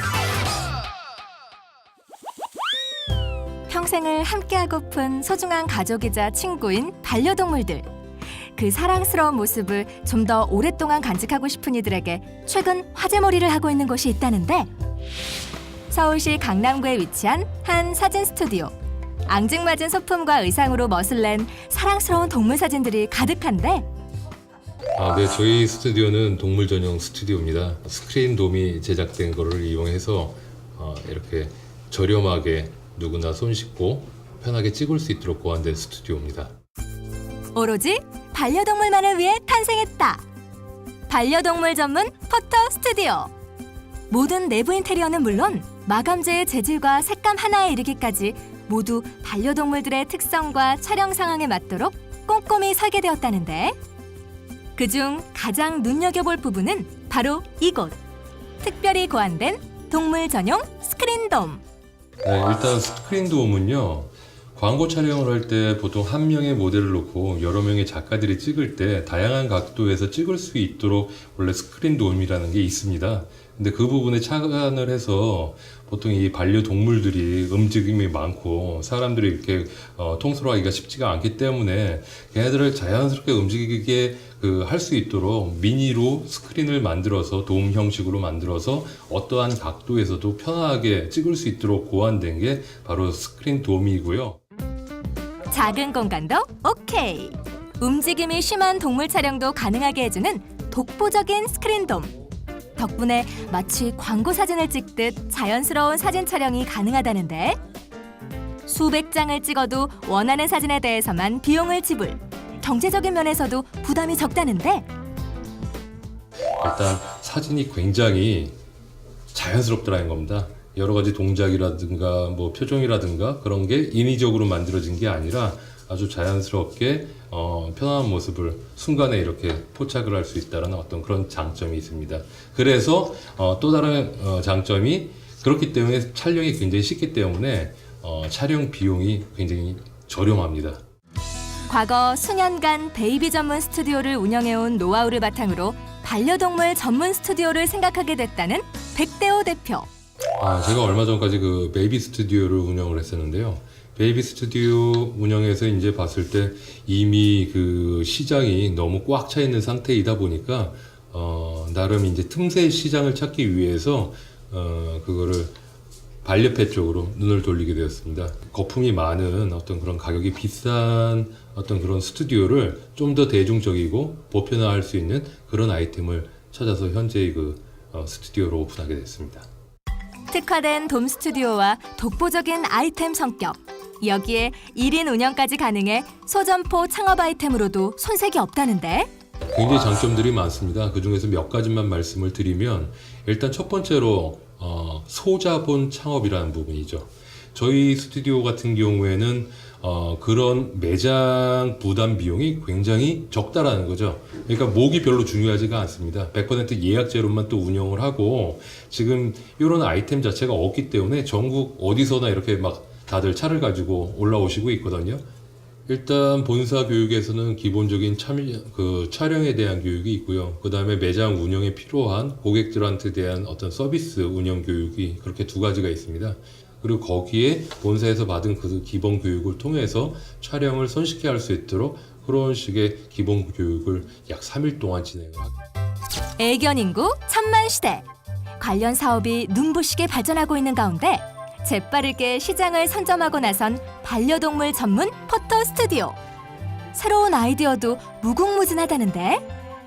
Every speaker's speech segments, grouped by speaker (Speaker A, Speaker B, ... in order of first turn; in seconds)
Speaker A: 3.7-7.9, 8.5-14.7, 15.9-18.7, 19.3-23.9, 37.5-40.2, 41.1-43.3, 44.1-53.8, 54.8-58.0, 58.6-61.6, 95.5-102.1, 102.8-107.6, 108.7-114.9, 141.7-149.9, 180.3-189.1, 236.4-238.1, 238.6-246.2, 246.9-249.4
Speaker B: 24.9-36.5, 62.2-94.4, 116.6-118.6, 119.3-140.8, 150.4-165.5, 166.2-179.5, 189.5-215.2, 215.9-235.6